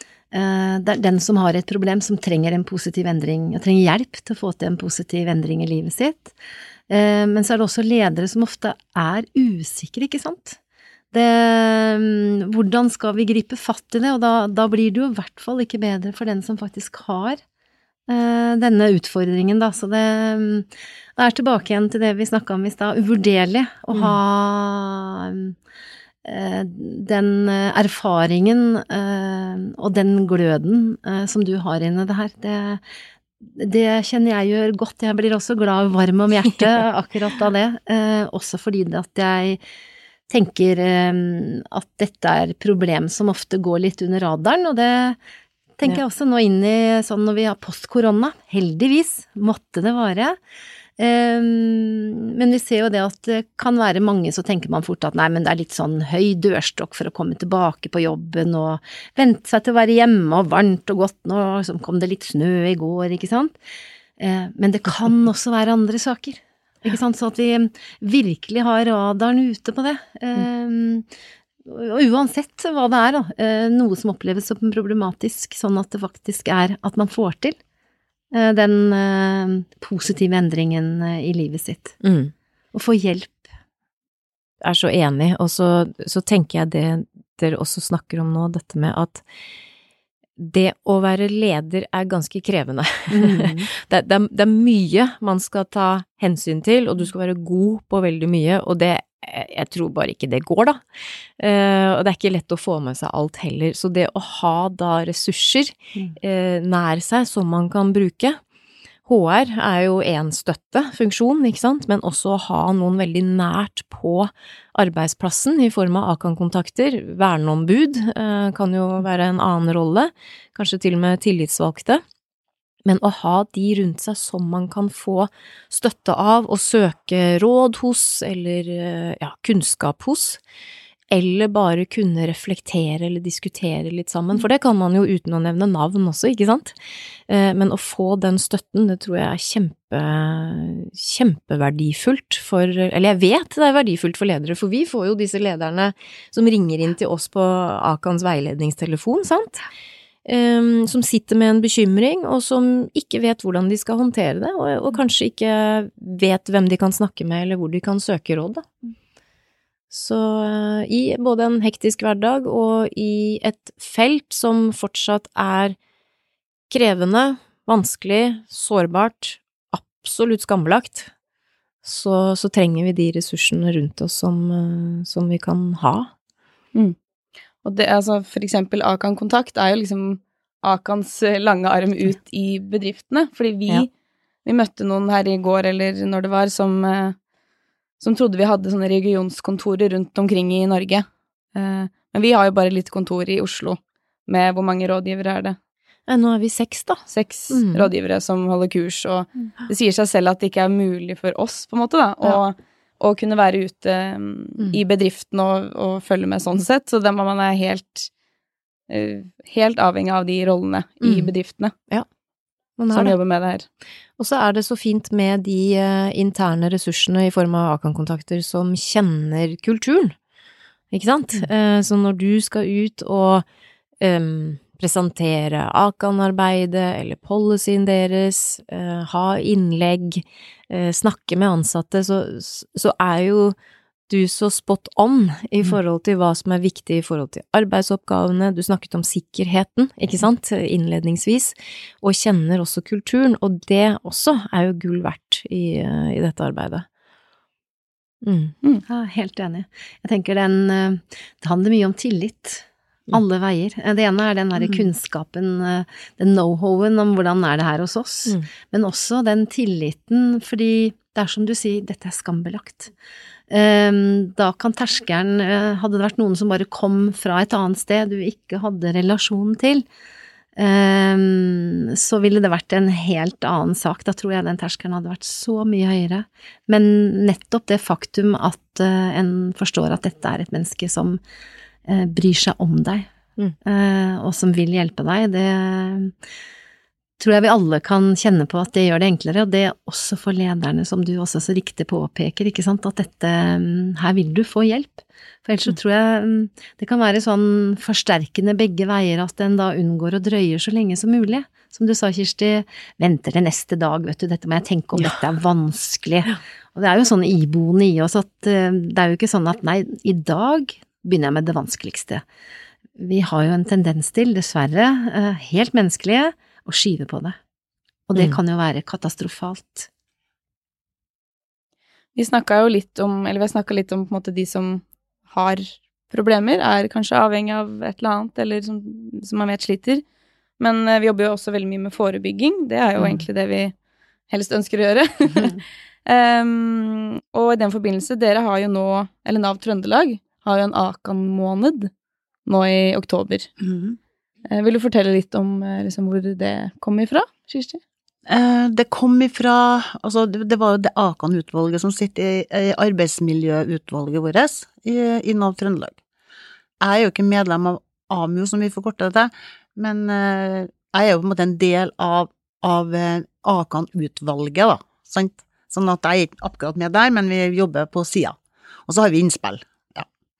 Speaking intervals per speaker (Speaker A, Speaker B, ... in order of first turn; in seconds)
Speaker A: 0.3-6.3, 6.9-10.6, 11.1-17.4, 18.1-25.5, 26.2-32.8, 33.4-39.6, 40.3-45.2, 45.8-50.4, 51.0-63.5, 64.2-71.0, 71.7-77.6, 78.3-82.0, 82.7-83.5, 93.1-93.7, 248.8-262.9, 263.5-269.8, 270.6-281.2, 281.9-283.1, 283.6-286.1, 287.2-312.2, 313.0-317.4, 318.1-319.9
Speaker B: 23.9-24.2, 82.0-82.3, 84.6-89.2, 90.4-100.8, 101.4-108.4, 109.0-122.0, 122.8-130.4, 131.1-136.8, 137.3-149.7, 150.2-158.6, 159.9-165.8, 166.7-171.1, 171.8-176.1, 196.1-197.9, 211.0-211.3, 212.8-213.2, 214.2-220.1, 220.9-223.4, 224.0-233.6, 234.1-246.8, 248.2-248.5
Speaker C: 177.6-183.9, 184.4-187.2, 188.0-195.6, 197.1-208.1, 208.9-211.7, 212.9-213.7, 322.1-330.0, 330.6-333.7, 334.3-341.9, 342.4-343.5, 344.5-347.8
Speaker D: 343.6-344.0, 348.3-356.0, 356.8-370.1